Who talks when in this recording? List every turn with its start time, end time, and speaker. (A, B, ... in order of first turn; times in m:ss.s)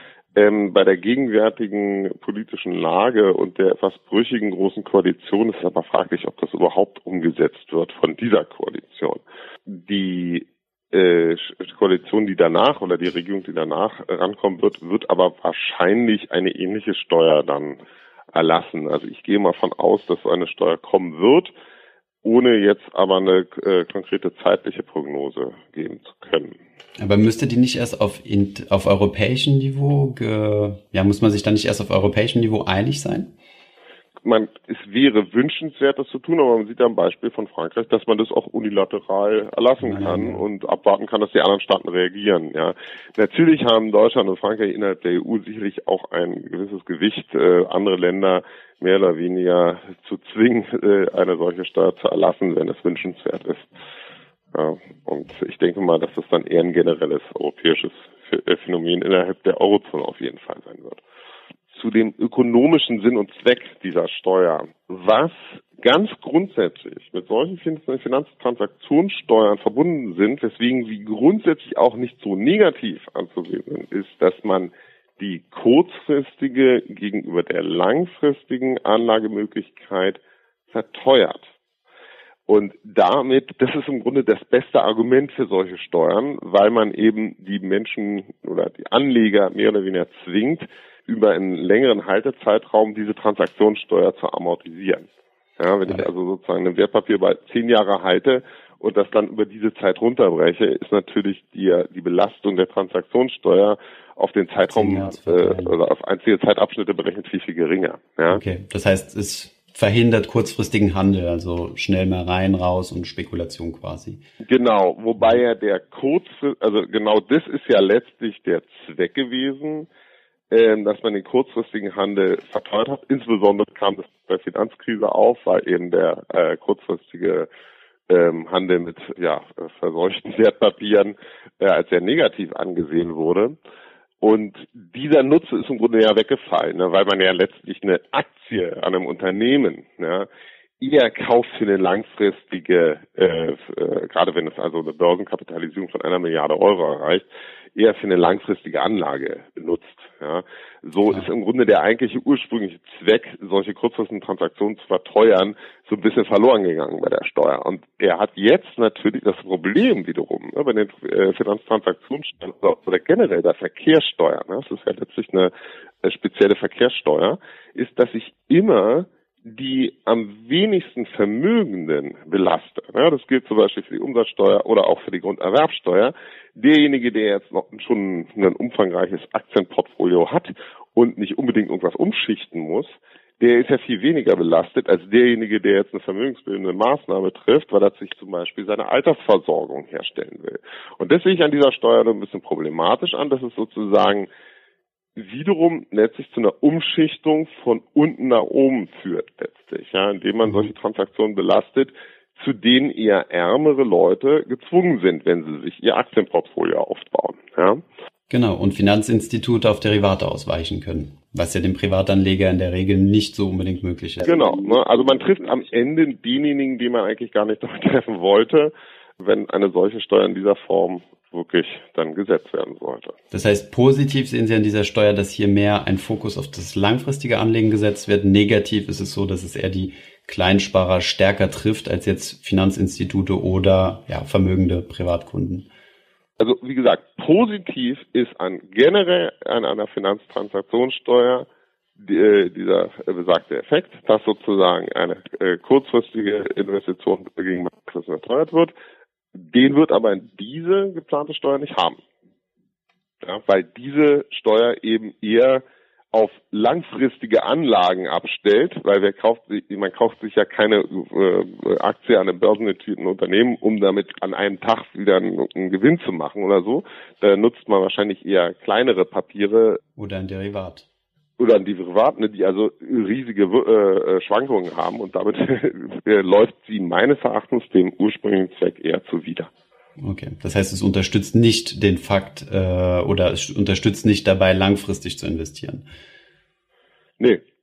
0:00.3-0:17.8 A
0:18.3-0:21.5 A
0:22.2-0:26.5 A
0:27.0-0:33.3 B
0:34.2-0:53.7 A
0:39.8-0:40.4 B
0:54.5-1:01.0 A
1:01.7-1:21.5 A
1:22.5-1:35.1 A
1:35.6-1:48.4 A
1:44.7-1:45.7 B
1:48.3-1:54.2 B
1:54.4-1:59.9 A
2:00.5-2:07.5 A
2:08.1-2:13.6 A
2:14.2-2:20.3 A
2:20.8-3:14.3 A
3:15.2-3:27.8 A
3:28.3-3:34.3 B
3:34.2-3:43.1 A
3:43.3-3:55.7 B
3:56.4-4:01.5 A
4:02.0-4:08.7 A
4:09.3-4:12.0 A
4:13.2-4:29.8 A
4:30.0-4:30.8 B
4:31.4-4:39.5 A
4:40.0-4:45.8 B